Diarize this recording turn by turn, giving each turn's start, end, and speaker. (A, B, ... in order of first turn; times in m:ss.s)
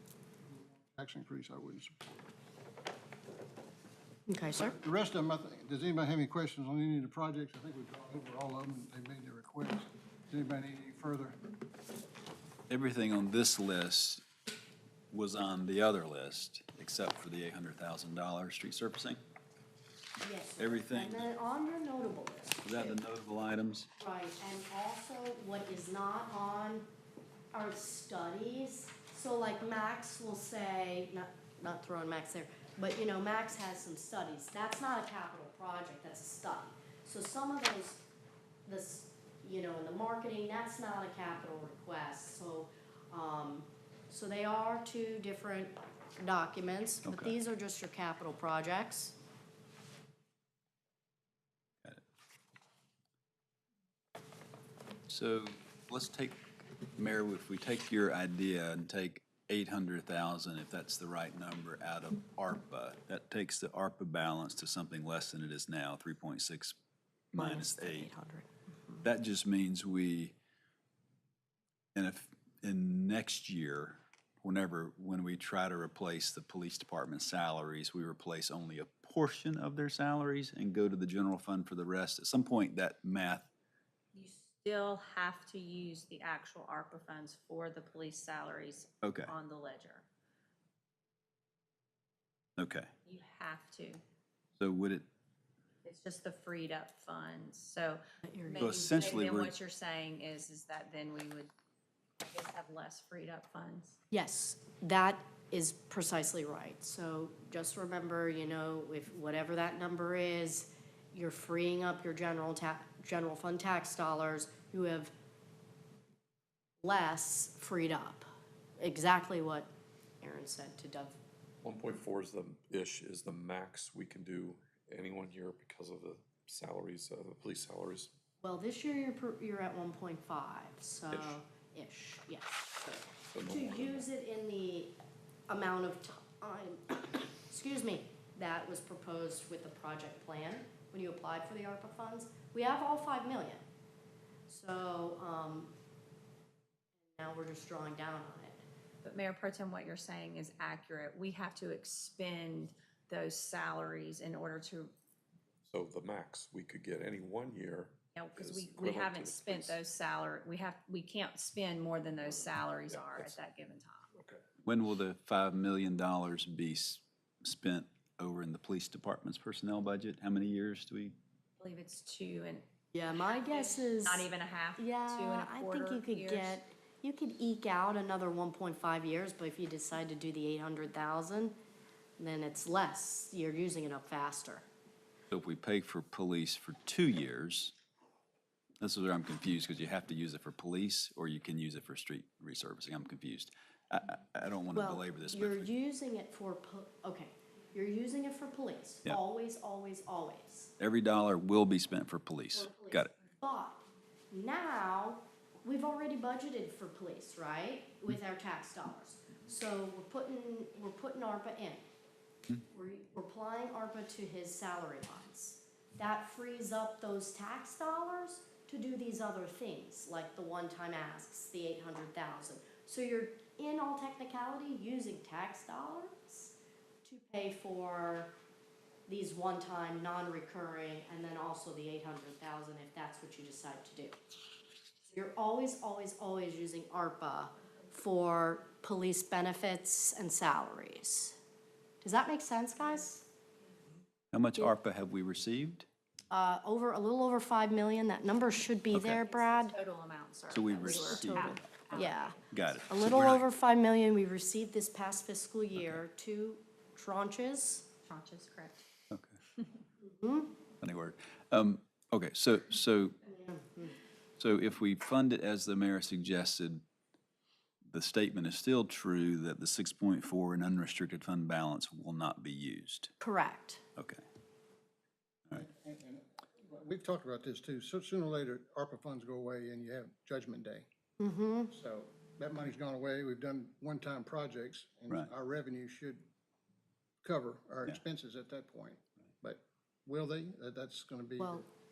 0:00.4-0:02.2 A
0:04.3-0:04.8 B
0:04.6-0:11.4 A
0:12.7-0:14.2 C
0:15.1-0:19.2 C
0:20.2-0:23.0 B
0:20.6-0:21.3 C
0:22.6-0:23.9 C
0:24.0-0:26.9 B
0:27.5-0:38.0 B
0:38.7-0:49.2 B
0:47.1-0:47.3 C
0:55.1-0:56.4 C
0:57.0-1:06.8 C
1:07.3-1:08.1 C
1:07.3-1:09.0 B
1:09.0-1:10.4 C
1:12.0-1:23.5 C
1:24.1-1:30.0 D
1:29.0-1:29.3 C
1:32.6-1:32.9 C
1:33.0-1:34.0 D
1:34.6-1:35.1 C
1:35.8-1:41.5 D
1:38.2-1:39.1 B
1:38.6-1:39.5 C
1:42.2-1:44.0 D
1:44.1-1:55.1 B
1:56.8-1:58.2 B
1:58.8-1:59.7 B
2:00.2-2:01.2 B
2:01.6-2:08.1 E
2:08.4-2:14.9 B
2:11.1-2:11.4 E
2:13.3-2:14.1 E
2:15.5-2:23.6 B
2:24.5-2:25.7 B
2:27.1-2:28.6 B
2:29.0-2:34.9 D
2:35.7-2:39.8 E
2:38.2-2:44.1 D
2:42.9-2:43.4 E
2:44.1-2:44.4 E
2:44.6-2:51.2 C
2:51.6-2:56.6 D
2:52.9-3:01.5 B
3:02.2-3:04.6 B
3:05.3-3:07.7 C
3:08.8-3:15.7 C
3:14.7-3:20.7 B
3:20.8-3:23.1 C
3:22.5-3:31.8 B
3:32.7-3:48.3 B
3:49.1-3:54.2 B
3:55.1-4:01.4 B
4:02.0-4:03.3 B
4:04.3-4:05.9 C
4:06.3-4:09.8 B
4:08.9-4:09.2 C
4:09.4-4:12.4 D
4:10.5-4:11.6 C
4:11.0-4:12.4 B
4:12.5-4:13.4 C
4:12.9-4:17.9 B
4:18.1-4:18.8 D
4:19.1-4:19.4 C
4:20.0-4:20.5 B
4:20.8-4:23.2 C
4:23.3-4:24.0 B
4:24.4-4:26.8 C
4:27.9-4:33.1 C
4:33.2-4:33.8 B
4:35.5-4:40.9 A
4:41.2-4:41.7 B
4:41.7-4:46.2 A
4:47.2-4:51.6 A
4:51.4-4:51.7 B